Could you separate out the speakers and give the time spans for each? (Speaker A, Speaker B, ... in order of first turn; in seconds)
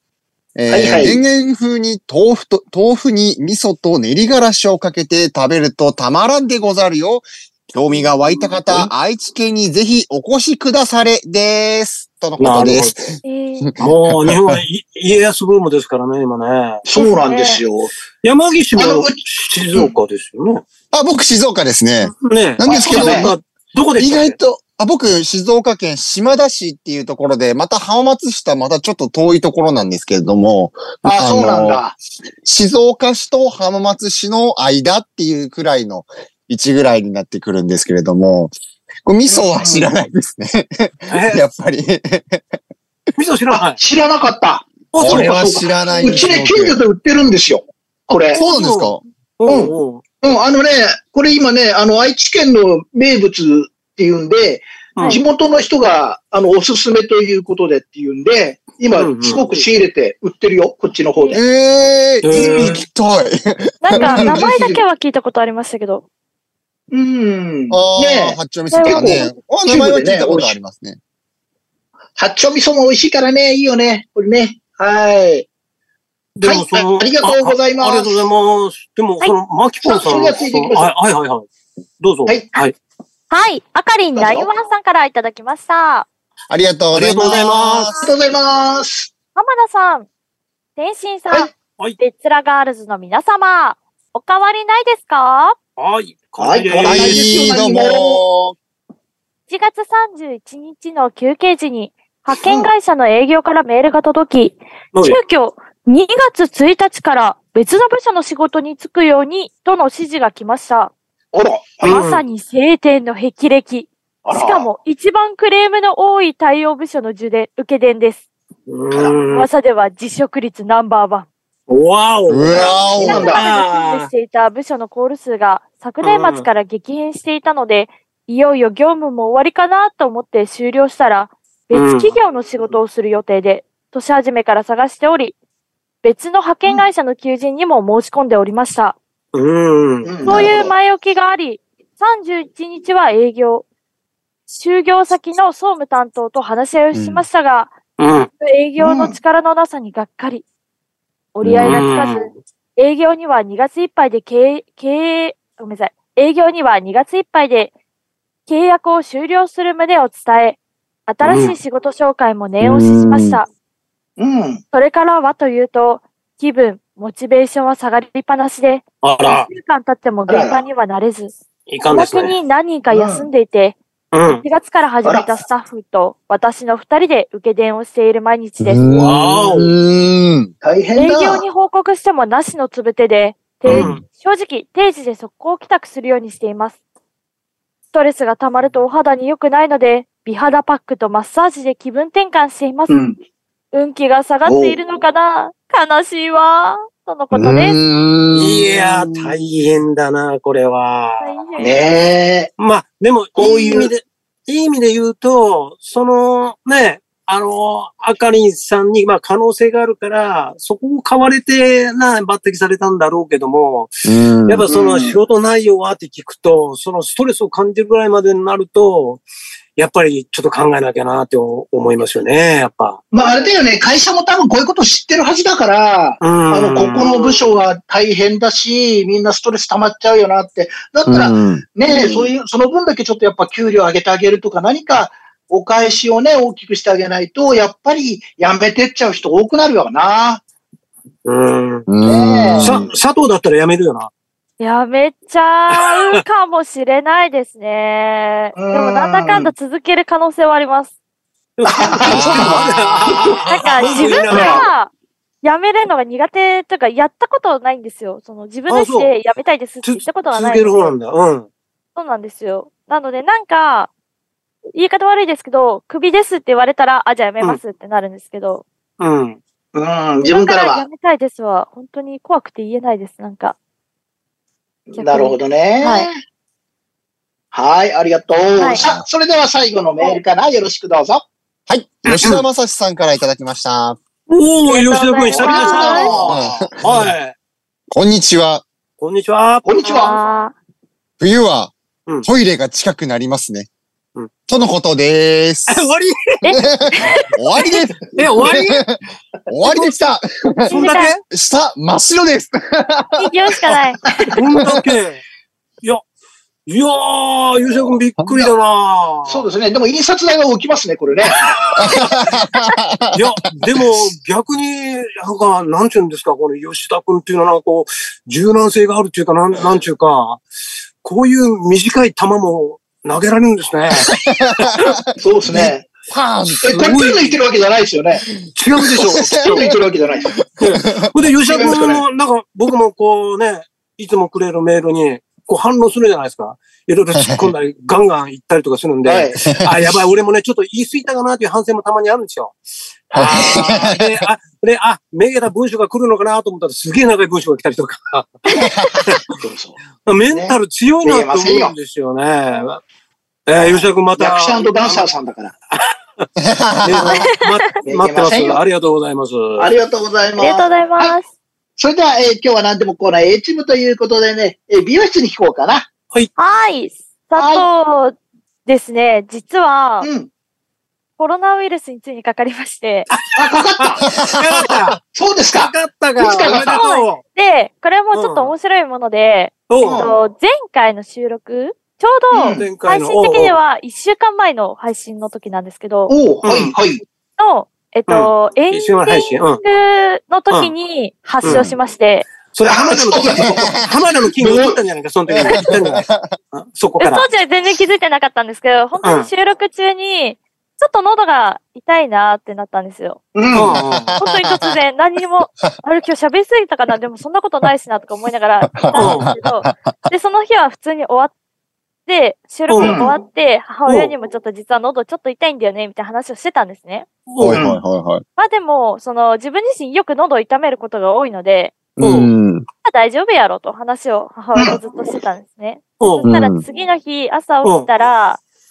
Speaker A: 0.6-14.6, 20.9-23.4, 24.0-31.8, 32.4-38.5, 39.0-42.6, 45.0-46.8, 48.3-49.0, 61.3-64.4, 67.7-71.0, 86.5-88.1, 96.8-98.5, 122.3-123.3, 146.9-147.2, 151.4-151.8, 162.6-163.4, 178.6-180.5, 183.7-184.0, 197.3-199.3, 214.0-214.7, 231.1-231.6, 241.9-242.9, 252.0-252.6, 278.7-279.0, 281.7-284.0, 286.3-287.1, 287.9-288.6, 291.2-291.7, 292.2-293.7, 294.5-295.9, 296.6-303.7, 304.5-304.8, 311.8-313.2, 324.1-326.9, 328.9-329.7, 330.3-331.1, 337.1-337.5, 343.1-344.2, 348.6-349.0, 356.4-357.2, 374.1-374.6, 391.4-391.8, 395.3-396.3, 403.7-404.7, 408.7-409.9, 417.4-418.2, 422.0-422.6, 426.2-426.6
Speaker B: 0.7-1.2, 16.8-17.9, 18.8-19.2, 22.6-23.3, 31.0-32.0, 39.3-39.9, 43.5-48.4, 49.5-61.4, 62.3-62.8, 63.9-64.8, 66.9-70.5, 72.2-75.5, 76.4-78.2, 79.8-80.9, 82.3-82.5, 84.1-84.5, 88.0-89.1, 96.4-98.2, 102.3-102.7, 111.3-112.0, 114.2-114.7, 118.9-119.2, 122.9-123.4, 140.0-140.7, 148.8-149.2, 164.2-164.6, 170.3-170.6, 172.9-173.3, 175.0-175.3, 180.6-181.4, 192.9-193.2, 194.4-194.8, 201.6-202.5, 203.3-203.9, 214.7-215.2, 223.1-240.4, 242.0-242.9, 248.6-249.5, 251.7-254.7, 269.7-270.9, 274.9-276.2, 277.5-281.2, 285.3-286.4, 289.6-290.2, 309.2-311.4, 325.2-325.9, 326.6-328.2, 329.2-330.3, 331.4-332.0, 339.0-339.6, 349.3-349.8, 350.3-351.7, 353.6-355.5, 357.8-358.6, 359.6-361.1, 361.8-365.9, 367.4-367.7, 370.0-370.3, 373.3-374.1, 375.1-376.8, 379.8-380.2, 382.3-382.7, 386.1-387.0, 392.6-393.8, 394.4-394.8, 403.3-403.8, 412.8-413.2, 417.5-417.8, 424.5-424.8
Speaker C: 12.4-12.9, 13.8-16.8, 18.2-20.6, 22.2-24.4, 41.1-41.4, 43.1-43.8, 44.9-45.5, 48.3-50.0, 55.0-55.2, 58.9-59.5, 62.2-62.8, 76.3-81.5, 82.0-82.8, 86.9-87.9, 95.8-97.3, 104.9-105.2, 111.8-112.2, 118.7-119.5, 121.7-124.1, 126.0-126.5, 131.7-132.1, 139.3-140.2, 148.0-148.3, 151.6-152.3, 161.2-161.6, 169.0-169.5, 171.7-172.3, 174.1-174.4, 178.8-179.7, 183.6-184.0, 198.3-201.3, 202.6-219.2, 219.8-223.0, 226.2-227.5, 241.2-241.9, 242.6-244.1, 245.8-246.2, 251.6-254.7, 258.7-259.1, 259.8-261.5, 269.0-269.4, 282.1-282.4, 284.3-287.3, 289.0-289.6, 295.7-296.4, 298.1-298.8, 300.7-301.2, 304.3-305.2, 306.6-309.5, 311.2-312.3, 313.1-320.4, 321.0-324.9, 326.7-327.4, 328.5-329.7, 330.6-342.6, 343.1-348.3, 349.1-349.3, 350.1-352.8, 353.5-355.1, 355.7-356.2, 356.8-359.7, 373.1-375.0, 375.5-377.2, 378.1-378.5, 379.7-380.1, 382.5-383.6, 386.4-386.7, 388.1-389.6, 392.5-397.2, 399.0-399.3, 403.5-404.1, 408.9-409.3, 412.7-413.0, 413.9-414.1, 417.3-417.6, 422.0-422.3, 426.0-426.3, 427.6-427.9
Speaker D: 13.2-13.7, 16.9-17.6, 63.8-66.0, 68.7-69.2, 83.3-86.1, 89.3-90.1, 90.8-95.6, 99.5-110.9, 111.8-118.2, 119.3-121.3, 122.6-135.3, 136.0-139.0, 140.2-143.6, 144.5-147.7, 148.4-150.4, 151.3-157.7, 158.5-163.5, 164.7-171.3, 171.9-173.8, 174.3-178.8, 180.9-186.8, 187.9-192.9, 193.7-197.8, 201.2-201.9, 244.6-250.9, 253.4-254.9, 255.4-260.9, 261.9-263.9, 264.7-268.6, 270.2-273.6, 275.0-276.1, 278.6-278.8, 284.7-286.1, 289.8-290.5, 296.4-297.3, 300.6-301.1, 303.2-304.0, 348.5-349.0, 357.1-357.8, 360.4-361.3, 366.4-370.1, 371.2-373.1, 376.5-386.1, 387.4-392.3, 397.0-403.2, 404.2-411.3, 412.1-417.1, 418.4-421.9, 422.8-428.4